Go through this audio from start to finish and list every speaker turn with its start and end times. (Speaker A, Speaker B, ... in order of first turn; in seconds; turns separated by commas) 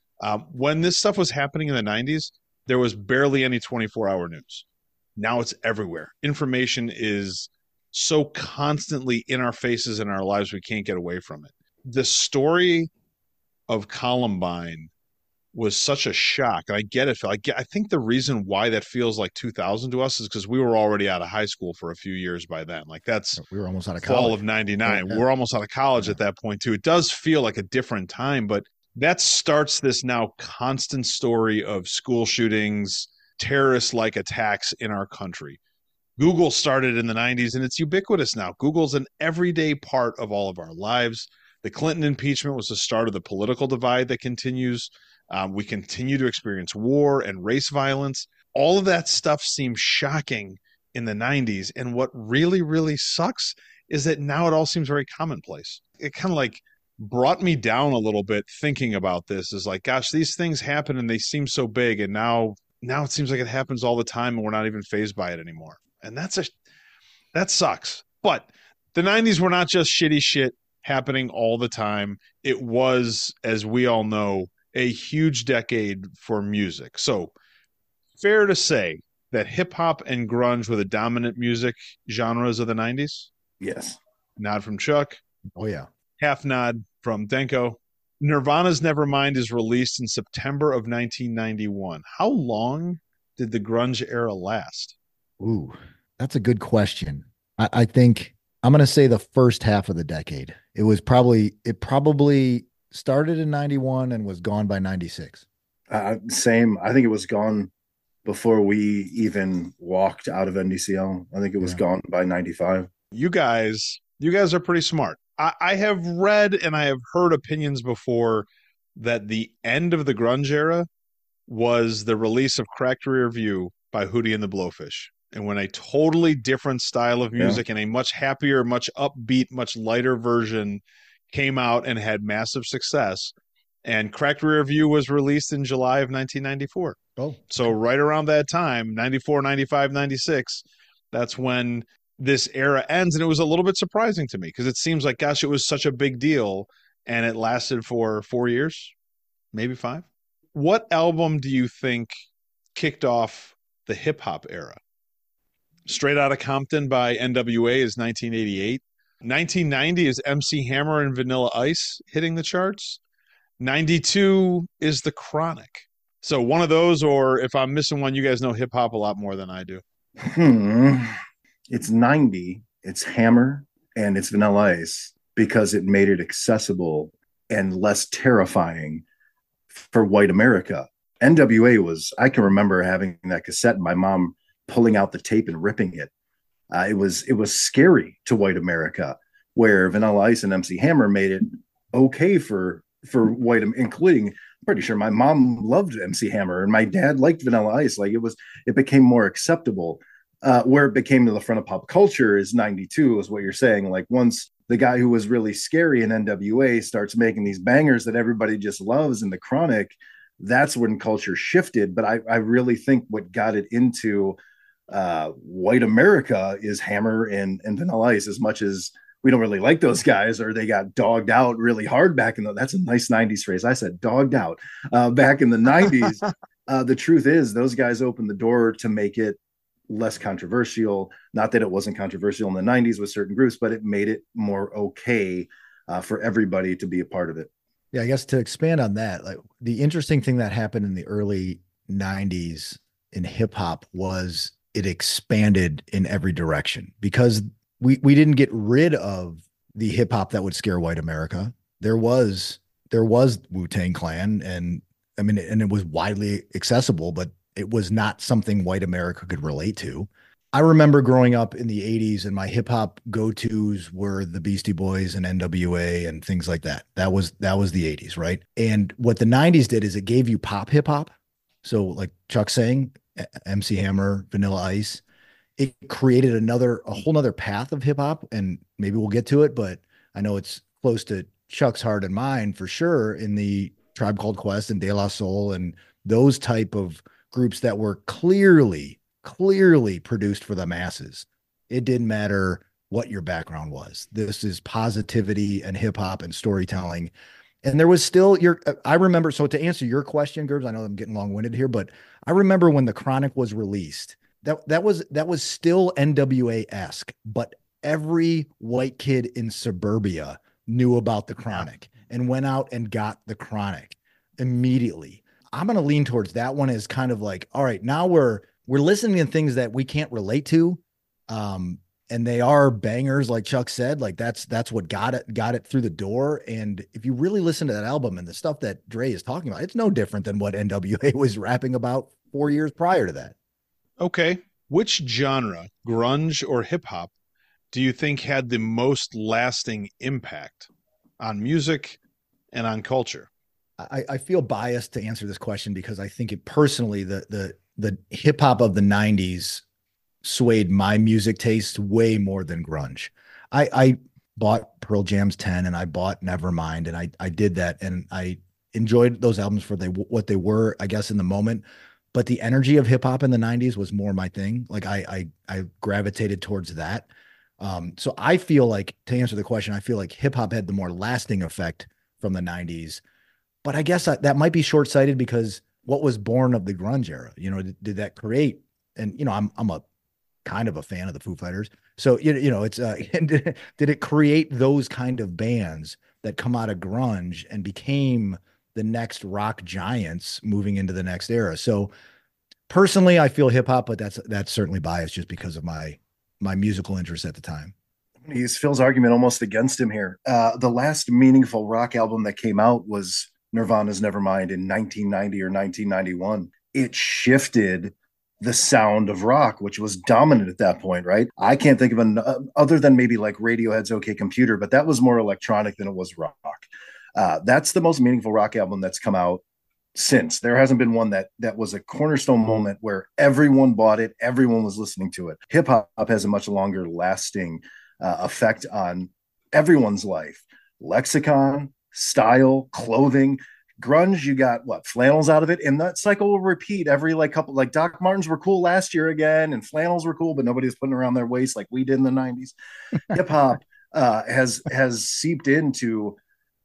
Speaker A: 0.2-4.7, Speaker A: 5.2-12.9, Speaker A: 13.7-14.9, Speaker A: 15.5-23.4, Speaker B: 23.4-25.2, Speaker A: 24.0-35.6, Speaker A: 36.2-66.5, Speaker A: 67.3-77.3, Speaker A: 78.2-83.3, Speaker C: 83.6-84.0, Speaker A: 84.4-85.2, Speaker B: 85.6-85.9, Speaker A: 86.2-95.0, Speaker B: 95.4-105.5, Speaker C: 105.9-107.7, Speaker C: 108.2-112.9, Speaker A: 113.1-120.9, Speaker A: 121.5-148.9, Speaker B: 137.2-137.7, Speaker A: 149.5-152.1, Speaker A: 152.8-154.8, Speaker A: 155.9-163.0, Speaker A: 163.6-169.8, Speaker C: 170.2-171.2, Speaker C: 171.7-179.0, Speaker C: 179.8-186.1, Speaker C: 186.7-214.4, Speaker C: 214.9-229.4, Speaker C: 229.9-237.5, Speaker B: 237.9-271.1, Speaker B: 271.6-275.0, Speaker B: 275.6-297.1, Speaker B: 297.6-333.4, Speaker A: 334.0-337.1, Speaker A: 337.7-340.7, Speaker A: 341.2-342.0, Speaker A: 342.5-343.3, Speaker B: 343.8-349.6, Speaker B: 350.2-367.1, Speaker B: 367.6-373.0, Speaker B: 373.6-379.9, Speaker B: 380.4-391.9, Speaker B: 392.7-397.7, Speaker C: 398.2-419.4, Speaker C: 419.9-442.5, Speaker C: 443.1-446.2